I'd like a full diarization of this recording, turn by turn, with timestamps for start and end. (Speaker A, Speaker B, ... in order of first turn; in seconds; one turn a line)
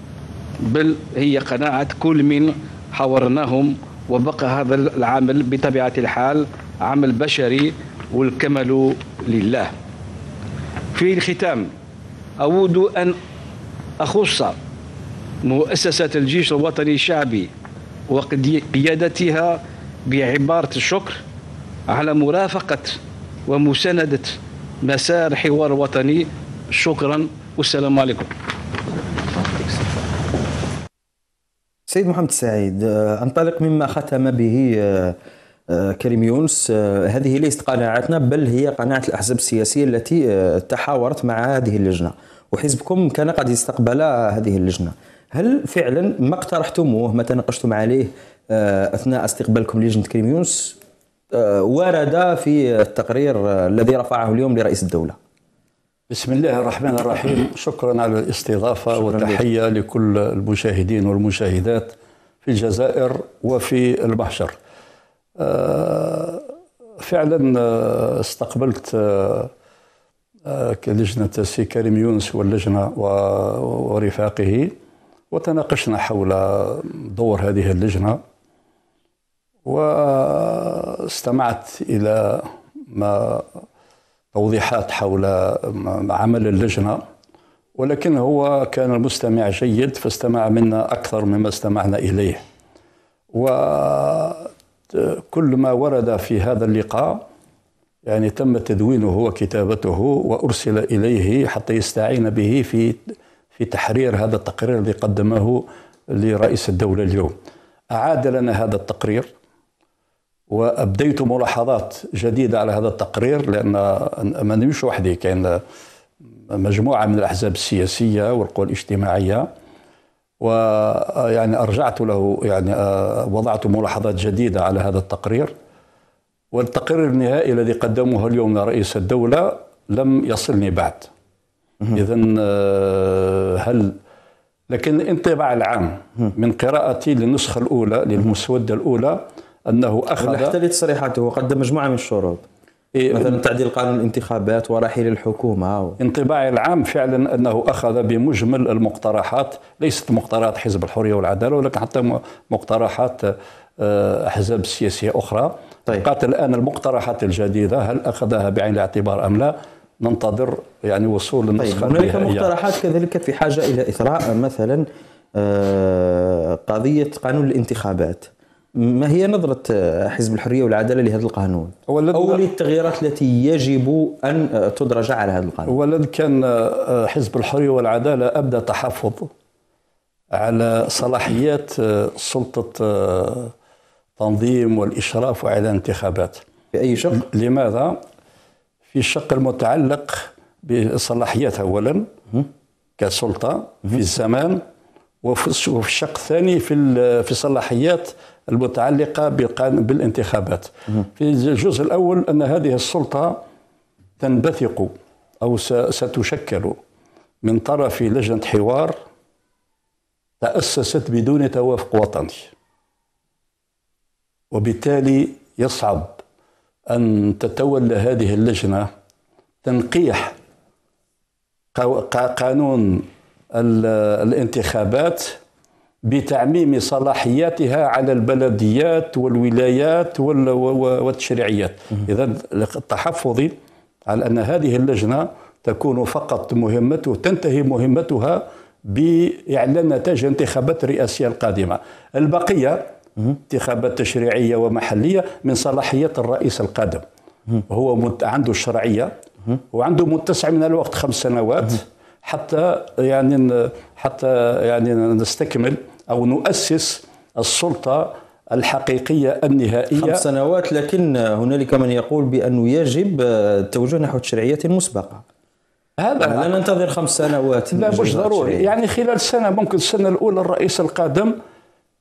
Speaker A: 0.6-9.7
Speaker A: 10.9-11.7
Speaker A: 12.4-13.2
Speaker A: 14.0-14.6
Speaker A: 15.4-17.5
Speaker A: 18.1-21.2
Speaker A: 21.9-28.3
Speaker B: 31.9-35.2
Speaker B: 35.7-50.8
Speaker B: 51.3-55.2
Speaker C: 56.1-64.5
Speaker B: 58.9-59.4
Speaker C: 65.4-66.4
Speaker C: 67.0-69.5
Speaker C: 70.5-74.7
Speaker C: 75.3-78.2
Speaker C: 79.7-83.5
Speaker C: 84.3-87.0
Speaker C: 87.8-92.4
Speaker C: 93.3-97.2
Speaker C: 98.0-107.3
Speaker C: 107.9-109.3
Speaker C: 110.5-115.6
Speaker C: 116.5-119.5
Speaker C: 120.4-125.5
Speaker C: 126.5-131.1
Speaker C: 131.9-133.9
Speaker C: 134.7-140.6
Speaker B: 140.2-142.4
Speaker C: 142.9-143.4
Speaker B: 143.1-146.0
Speaker C: 146.0-162.5
Speaker B: 161.6-175.7
Speaker C: 171.9-172.4
Speaker C: 175.7-179.3
Speaker C: 180.3-183.5
Speaker C: 184.2-186.4
Speaker B: 186.7-187.2
Speaker C: 187.1-188.0
Speaker C: 188.9-192.1
Speaker C: 193.0-194.6
Speaker C: 195.2-203.4
Speaker C: 204.2-206.8
Speaker C: 207.4-208.9
Speaker C: 210.4-212.5
Speaker C: 214.5-216.2
Speaker C: 216.9-218.9
Speaker C: 219.6-220.3
Speaker C: 221.8-225.4
Speaker C: 226.1-233.5
Speaker C: 234.1-242.8
Speaker C: 243.3-247.0
Speaker C: 247.7-249.1
Speaker C: 249.7-260.2
Speaker B: 259.9-265.2
Speaker C: 266.0-266.6
Speaker B: 266.2-268.7
Speaker C: 267.7-271.3